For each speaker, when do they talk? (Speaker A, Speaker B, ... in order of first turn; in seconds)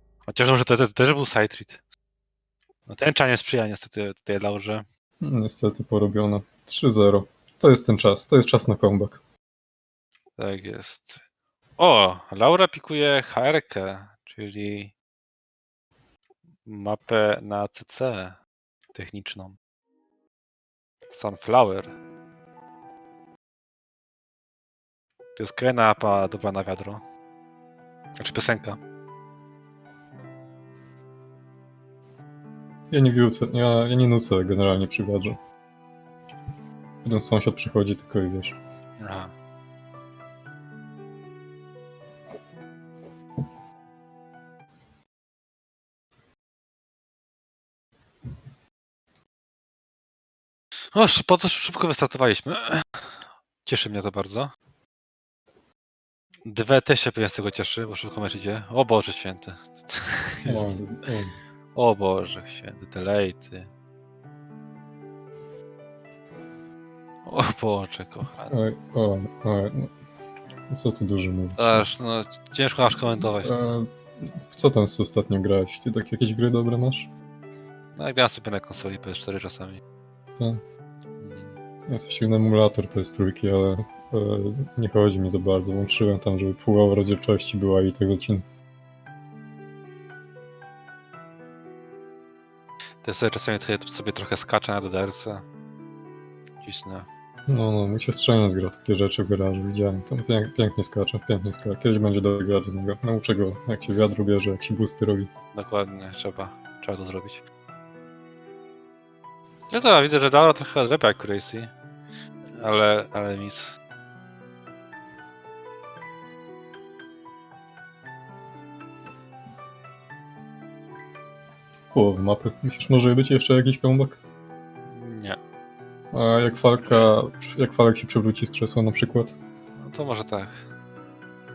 Speaker A: 0.3-1.8, 2.9-4.8, 10.4-11.2, 11.8-14.9, 16.6-18.4, 18.9-19.6, 21.1-21.9, 25.4-27.0, 28.2-28.8, 39.0-39.3, 50.9-53.1, 53.6-54.5, 56.5-60.7, 61.8-63.7, 67.3-68.5, 71.6-73.7, 78.0-79.8, 81.2-81.6, 93.0-95.5, 96.6-97.1, 105.5-107.4, 109.7-111.7, 112.6-113.8, 124.9-125.4, 129.8-130.6
Speaker B: 5.2-9.2, 32.9-35.4, 37.0-38.6, 60.5-61.4, 68.5-69.9, 70.7-71.9, 73.2-77.1, 81.9-88.5, 97.5-105.3, 121.9-124.2, 126.1-129.3